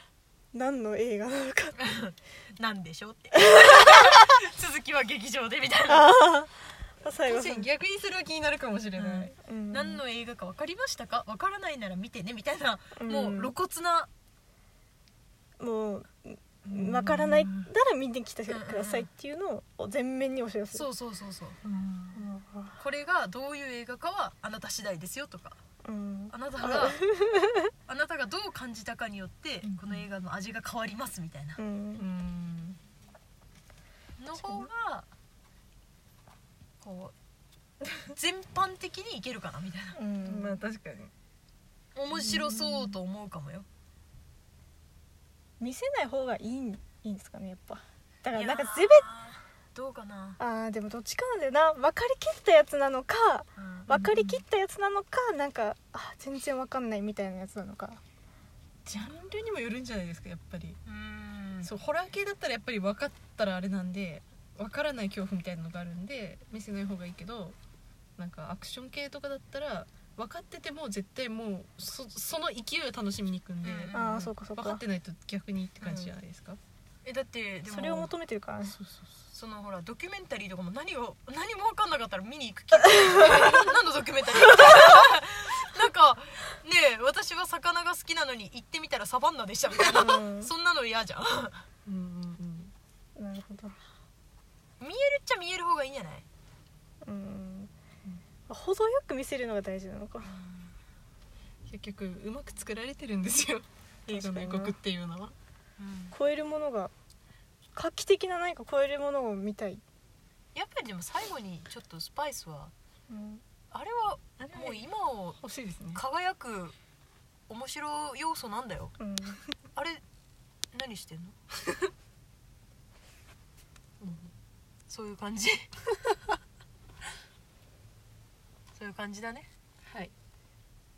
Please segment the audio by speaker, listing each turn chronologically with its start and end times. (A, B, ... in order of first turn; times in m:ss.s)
0:00.5-0:01.8 A
0:01.8-0:06.2 B
0:03.4-0:03.9 A
0:05.9-0:06.5 A
0:07.0-0:07.7 A
0:07.3-0:09.3 C
0:09.0-0:14.1 B
0:09.4-0:10.0 A
0:13.0-0:13.6 A
0:15.6-0:20.9 A
0:16.7-0:17.7 C
0:18.5-0:19.1 B
0:20.7-0:21.6 B
0:21.6-0:22.3 C
0:22.1-0:22.8 A
0:22.8-0:25.6 B
0:25.8-0:27.6 A
0:26.3-0:27.0 B
0:27.9-0:31.6 B
0:29.6-0:30.0 C
0:31.6-0:32.0 A
0:32.0-0:32.8 C
0:34.2-0:35.1 B
0:34.4-0:34.7 A
0:36.8-0:37.1 B
0:38.0-0:40.0 B
0:40.0-0:40.6 A
0:40.1-0:41.1 C
0:42.0-0:43.7 B
0:42.1-0:43.0 C
0:45.6-0:49.1 A
0:48.3-0:50.4 B
0:50.4-0:58.0 A
0:53.6-0:53.9 B
0:53.9-0:54.4 C
0:58.9-1:00.8 C
1:00.8-1:01.7 B
1:01.6-1:07.6 C
1:08.2-1:16.6 C
1:13.6-1:14.2 B
1:13.9-1:14.8 A
1:15.8-1:16.1 B
1:17.0-1:18.1 B
1:17.7-1:18.8 A
1:18.7-1:19.1 C
1:19.3-1:31.6 B
1:29.9-1:30.5 A
1:31.9-1:32.7 C
1:33.2-1:33.8 A
1:34.8-1:36.2 B
1:37.0-1:37.7 A
1:38.5-1:40.3 A
1:40.2-1:40.7 B
1:41.7-1:45.4 C
1:44.1-1:44.8 A
1:45.8-1:46.2 B
1:46.1-1:46.9 A
1:47.8-1:49.8 A
1:50.6-1:52.7 B
1:53.1-1:53.4 A
1:53.7-1:55.4 B
1:54.5-1:54.8 C
1:55.4-1:56.0 C
1:55.9-1:56.8 B
1:57.5-1:58.9 B
1:59.0-1:59.4 A
1:59.8-2:00.0 B
2:00.7-2:01.4 B
2:04.0-2:04.3 C
2:04.9-2:05.7 B
2:08.8-2:09.5 B
2:09.8-2:10.1 C